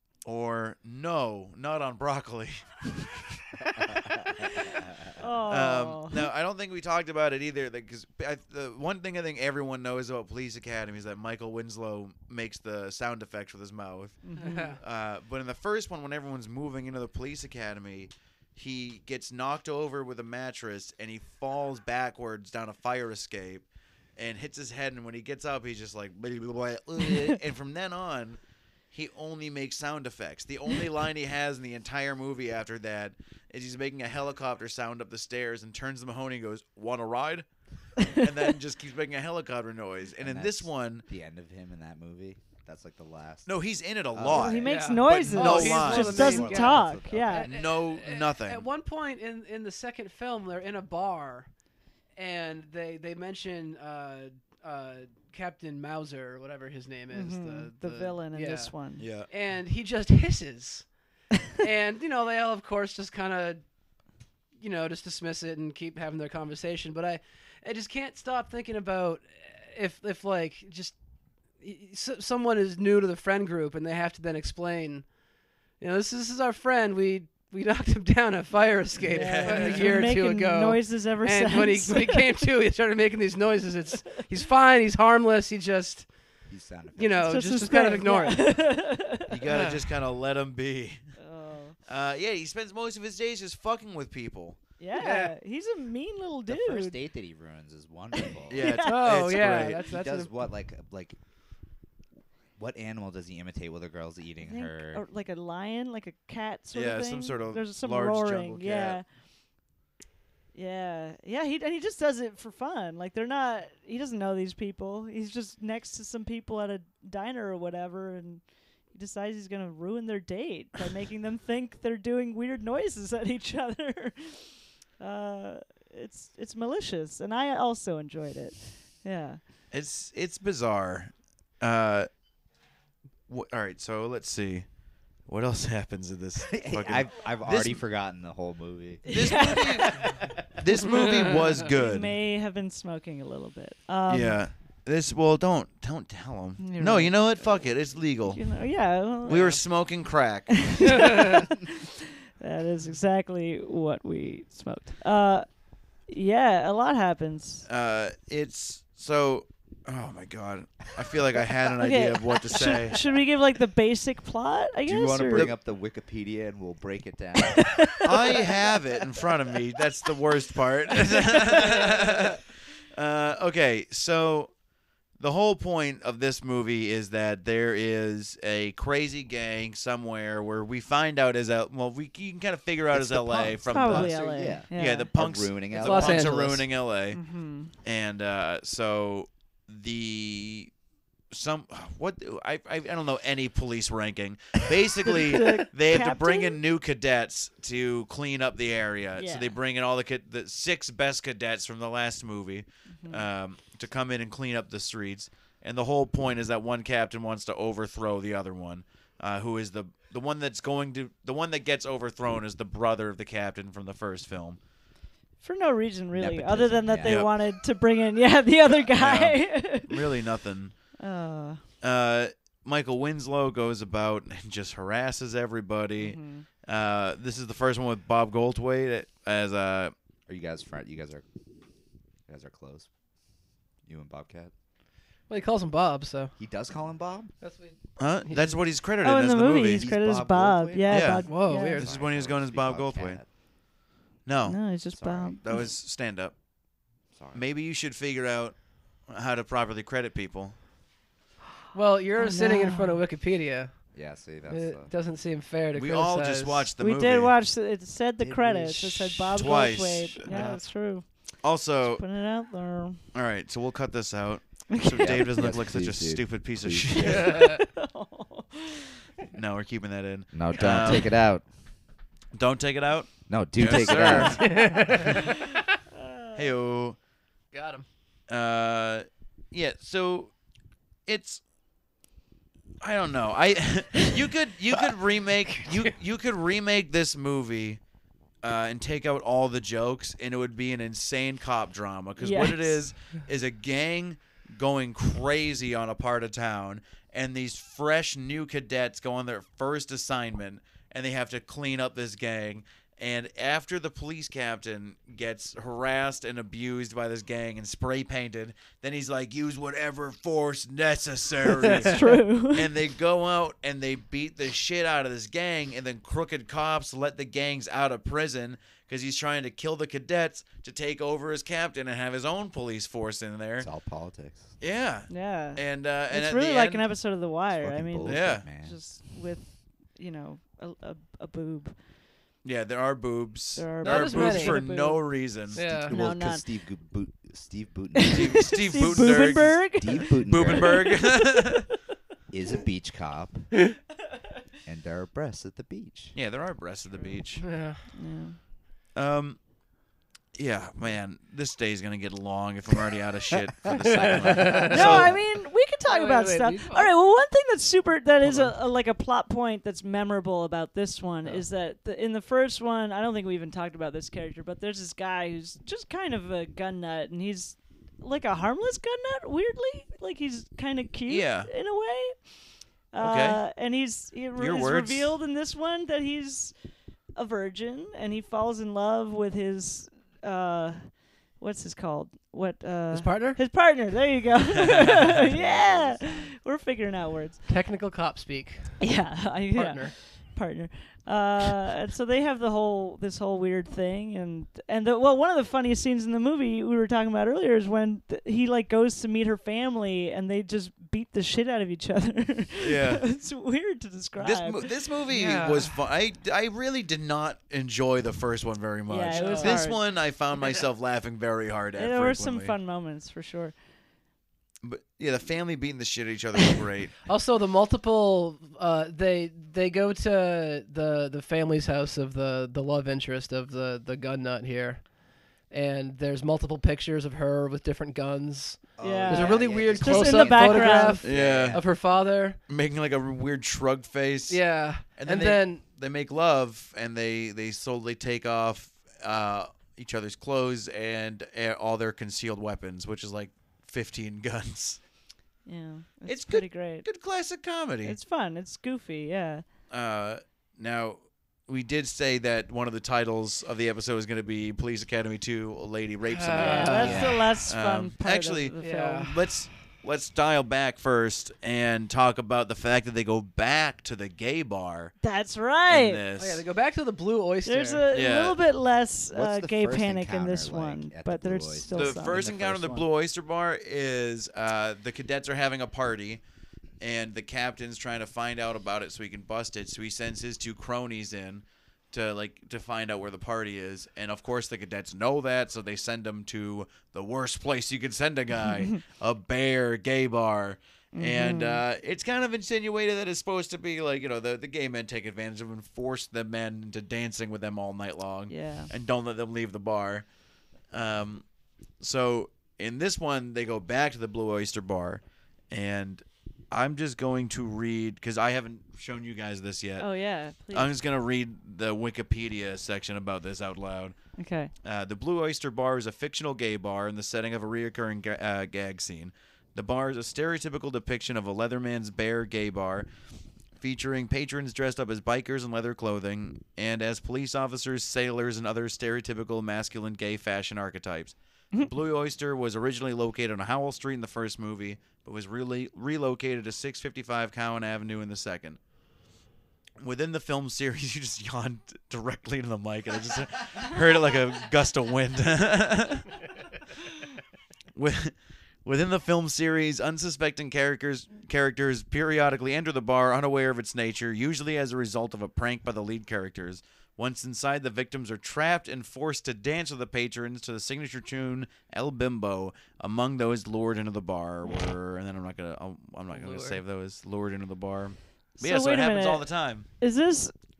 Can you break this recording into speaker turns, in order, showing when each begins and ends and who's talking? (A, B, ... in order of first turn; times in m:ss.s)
0:00.2-0:03.7 A
0:03.8-0:05.0 B
0:05.2-0:06.3 C
0:05.5-0:28.4 A
0:14.2-0:14.7 C
0:14.4-0:14.8 D
0:28.9-0:37.4 A
0:38.0-0:38.3 C
0:38.1-0:41.0 A
0:40.2-0:43.5 B
0:43.4-0:46.5 A
0:44.1-0:44.7 B
0:44.3-0:47.5 C
0:44.6-0:51.5 D
0:45.8-0:47.5 B
0:47.4-0:48.7 A
0:52.2-0:58.7 D
0:57.1-0:59.0 C
0:59.0-0:59.3 A
0:59.3-1:00.9 D
1:01.5-1:03.6 D
1:04.6-1:11.0 D
1:11.6-1:15.1 D
1:15.8-1:26.1 D
1:19.1-1:20.2 A
1:19.1-1:22.2 C
1:26.5-1:27.4 B
1:27.0-1:28.6 D
1:27.2-1:29.3 C
1:29.3-1:31.0 A
1:29.5-1:29.9 D
1:31.2-1:31.8 C
1:31.8-1:34.6 A
1:34.8-1:37.0 C
1:34.9-1:35.3 D
1:36.5-1:38.6 B
1:38.5-1:39.8 A
1:38.5-1:39.1 C
1:38.9-1:40.5 D
1:39.3-1:41.2 B
1:42.6-1:45.0 B
1:44.4-1:49.0 C
1:46.7-1:49.0 A
1:50.5-2:09.4 C
2:09.7-2:12.1 A
2:13.3-2:14.6 A
2:15.2-2:17.8 A
2:16.5-2:19.6 B
2:19.0-2:20.2 C
2:19.1-2:22.1 A
2:21.7-2:24.4 C
2:24.1-2:28.4 A
2:26.6-2:27.2 C
2:28.3-2:29.6 C
2:29.2-2:31.1 A
2:30.5-2:35.5 C
2:31.0-2:31.3 D
2:36.0-2:37.7 C
2:37.7-2:43.0 A
2:41.8-2:45.5 C
2:44.9-2:48.0 B
2:45.3-2:45.6 A
2:47.5-2:48.1 C
2:48.0-2:54.5 A
2:51.1-2:52.0 C
2:55.2-3:07.2 A
3:02.9-3:06.4 B
3:03.6-3:05.1 C
3:05.8-3:06.6 D
3:07.1-3:07.7 C
3:07.8-3:10.7 A
3:11.3-3:34.6 A
3:15.0-3:16.6 C
3:19.2-3:19.6 C
3:22.9-3:23.2 C
3:35.4-3:40.0 C
3:36.1-3:37.3 B
3:37.0-3:37.3 A
3:38.8-3:40.8 A
3:41.0-3:41.6 C
3:41.8-3:49.9 A
3:46.0-3:46.4 C
3:50.3-3:51.2 B
3:52.3-3:52.9 B
3:53.8-3:54.5 B
3:55.3-3:56.3 D
3:56.4-3:57.3 B
3:57.4-3:58.6 D
3:58.0-3:59.8 A
3:59.0-4:01.8 C
3:59.7-4:03.3 B
4:00.9-4:03.2 A
4:01.3-4:01.9 D
4:04.2-4:04.7 A
4:04.4-4:05.7 C
4:04.9-4:05.4 B
4:05.4-4:06.4 A
4:07.1-4:07.4 B
4:07.3-4:10.6 A
4:11.7-4:13.9 D
4:12.2-4:13.0 C
4:13.9-4:14.9 B
4:14.5-4:16.7 D
4:15.7-4:17.3 A
4:16.8-4:21.2 C
4:18.2-4:19.4 B
4:19.3-4:20.2 A
4:20.2-4:20.6 B
4:21.4-4:22.0 A
4:21.8-4:23.0 C
4:23.1-4:27.6 A
4:24.7-4:25.3 C
4:24.8-4:27.3 B
4:27.0-4:27.6 D
4:27.6-4:28.9 C
4:29.3-4:31.2 A
4:30.3-4:31.4 B
4:32.3-4:35.1 A
4:33.3-4:34.6 B
4:34.1-4:35.2 C
4:34.3-4:35.5 D
4:35.9-4:36.5 C
4:36.3-4:37.0 A
4:37.5-4:37.8 D
4:38.3-4:40.3 A
4:41.0-4:41.4 A
4:42.8-4:47.8 A
4:45.6-4:45.9 D
4:48.4-5:23.7 A
4:52.2-4:52.8 C
5:11.5-5:12.0 D
5:11.8-5:12.7 C
5:23.6-5:24.5 B
5:24.6-5:26.8 A
5:25.1-5:31.7 C
5:27.6-5:28.8 B
5:28.0-5:28.4 A
5:32.4-5:35.6 A
5:33.6-5:34.7 C
5:33.8-5:35.0 D
5:35.5-5:41.0 B
5:35.5-5:36.0 D
5:35.8-5:36.4 C
5:38.0-5:41.2 C
5:38.1-5:41.7 A
5:42.3-5:43.5 B
5:44.6-5:46.2 B
5:46.1-5:47.5 A
5:47.4-5:47.9 D
5:47.9-5:48.4 C
5:48.9-5:49.4 A
5:50.4-5:55.2 A
5:53.7-5:55.2 B
5:53.8-5:55.1 D
5:54.7-6:12.2 C
5:55.8-5:56.9 D
5:58.2-5:58.5 D
6:11.1-6:11.5 A
6:12.9-6:16.5 C
6:13.0-6:13.4 A
6:14.4-6:15.1 A
6:17.1-6:27.4 C
6:22.9-6:23.4 D
6:25.0-6:26.4 B
6:27.4-6:29.0 D
6:28.8-6:44.7 C
6:29.5-6:29.9 D
6:42.6-6:43.0 A
6:44.2-6:52.5 A
6:45.1-6:45.8 D
6:48.9-6:49.8 C
6:49.1-6:49.7 D
6:50.3-6:50.6 D
6:51.8-6:53.5 C
6:54.6-6:57.0 A
6:57.0-7:12.4 D
7:08.8-7:11.6 B
7:08.8-7:11.0 C
7:11.0-7:11.7 A
7:12.5-7:24.8 A
7:14.3-7:15.6 D
7:25.4-7:26.8 C
7:26.0-7:28.0 A
7:27.8-7:29.4 C
7:29.7-7:44.9 A
7:36.1-7:37.2 D
7:36.3-7:39.1 C
7:36.8-7:37.3 B
7:38.6-7:39.2 D
7:45.0-7:46.0 C
7:45.7-7:46.4 A
7:46.2-7:47.8 D
7:47.4-7:52.3 C
7:47.9-7:48.4 A
7:49.1-7:52.9 B
7:51.7-7:56.2 A
7:56.8-8:20.1 A
8:10.9-8:11.6 C
8:18.3-8:18.7 C
8:20.7-8:21.2 A
8:21.8-8:29.9 A
8:29.8-8:30.7 C
8:30.5-8:33.9 A
8:34.2-8:34.5 C
8:34.6-8:42.9 A
8:43.6-8:58.6 A
8:59.8-9:06.2 A
9:07.7-9:29.7 A
9:26.1-9:26.6 D
9:28.4-9:30.3 C